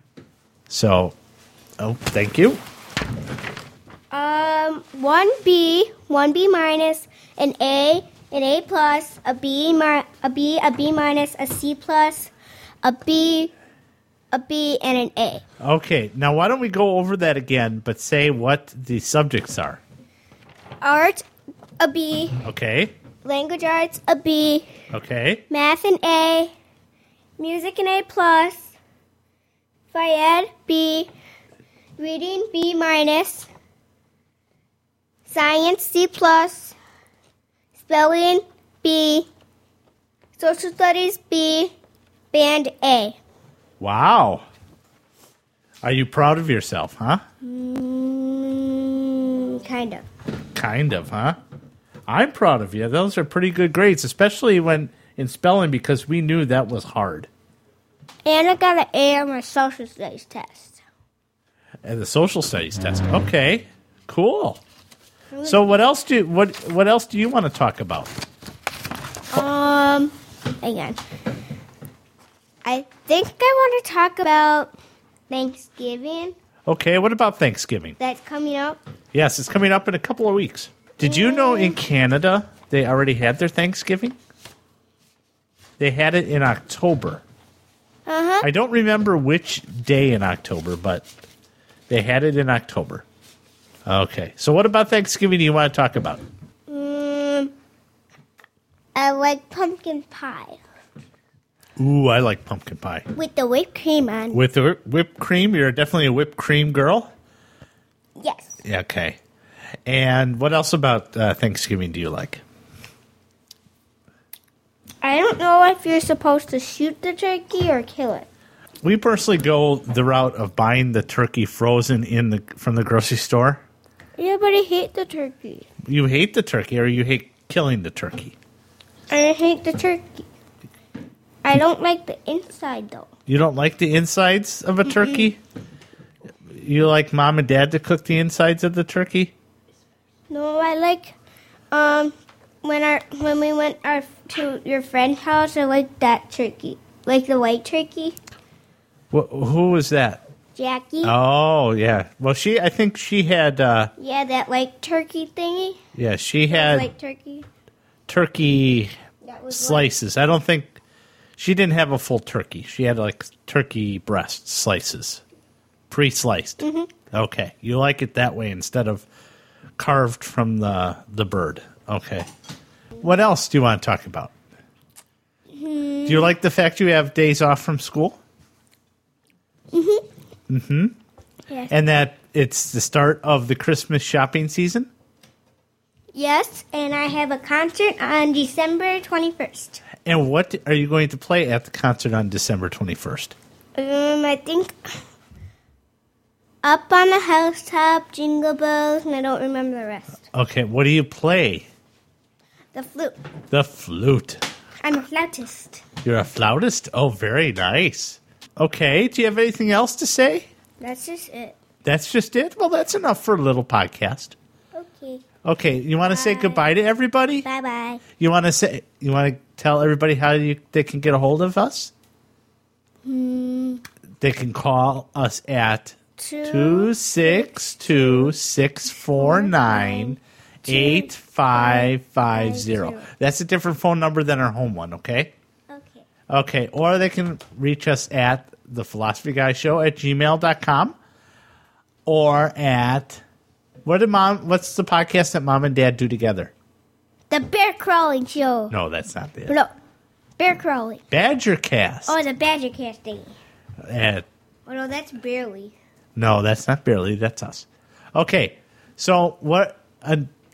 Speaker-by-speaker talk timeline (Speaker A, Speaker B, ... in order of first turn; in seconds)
Speaker A: 0.7-1.1, 1.8-2.6, 15.6-19.8, 22.4-22.9, 24.9-25.4, 43.8-44.5, 45.8-47.2, 50.5-51.4, 52.1-57.3, 61.8-64.6, 65.5-68.1, 76.7-78.0, 79.1-84.2, 85.8-87.2, 88.4-91.1, 91.9-93.1, 93.9-96.2, 101.8-103.1, 104.3-107.1, 108.6-109.2, 109.9-112.4, 118.8-123.6, 125.9-128.3, 133.3-135.4, 136.6-139.3, 149.1-150.2, 151.0-153.9, 155.9-156.9, 158.1-158.9, 159.5-160.8, 161.4-165.2, 165.9-169.1, 169.8-172.3, 173.0-174.3, 176.1-178.2, 180.5-181.0, 181.7-184.9, 190.1-193.4, 200.3-201.7, 203.5-204.4, 206.0-210.5, 211.8-214.3, 215.4-217.4, 218.2-221.9, 224.2-235.3, 236.3-241.0, 242.1-243.2, 243.8-246.5, 248.7-249.6, 251.1-252.2, 253.9-254.3, 256.2-260.3
Speaker B: 4.1-12.3, 12.8-13.5, 14.3-15.4, 20.8-21.2, 21.8-22.4, 23.2-24.7, 25.5-26.5, 27.4-28.7, 29.9-31.1, 32.0-33.5, 35.3-36.8, 37.8-39.3, 40.4-41.7, 42.3-43.2, 47.4-50.0, 58.2-60.8, 65.3-65.8, 69.3-71.0, 72.6-74.8, 75.3-76.3, 78.0-78.8, 81.0-81.8, 88.1-88.5, 96.7-97.5, 99.0-100.6, 103.1-104.4, 108.2-108.6, 115.0-118.3, 124.2-125.7, 129.1-130.3, 131.4-133.1, 140.3-141.1, 141.7-148.2, 150.6-151.2, 154.0-155.8, 156.5-157.5, 159.2-159.9, 166.6-166.9, 175.5-176.3, 179.7-180.1, 181.5-181.8, 186.1-189.8, 193.8-194.9, 196.6-200.3, 202.7-203.2, 204.8-205.8, 210.8-211.6, 214.8-215.2, 216.1-216.7, 217.4-218.0, 223.0-223.8, 226.2-228.3, 229.1-233.1, 235.7-236.1, 247.3-248.7, 250.4-251.0, 252.1-253.3, 254.7-255.7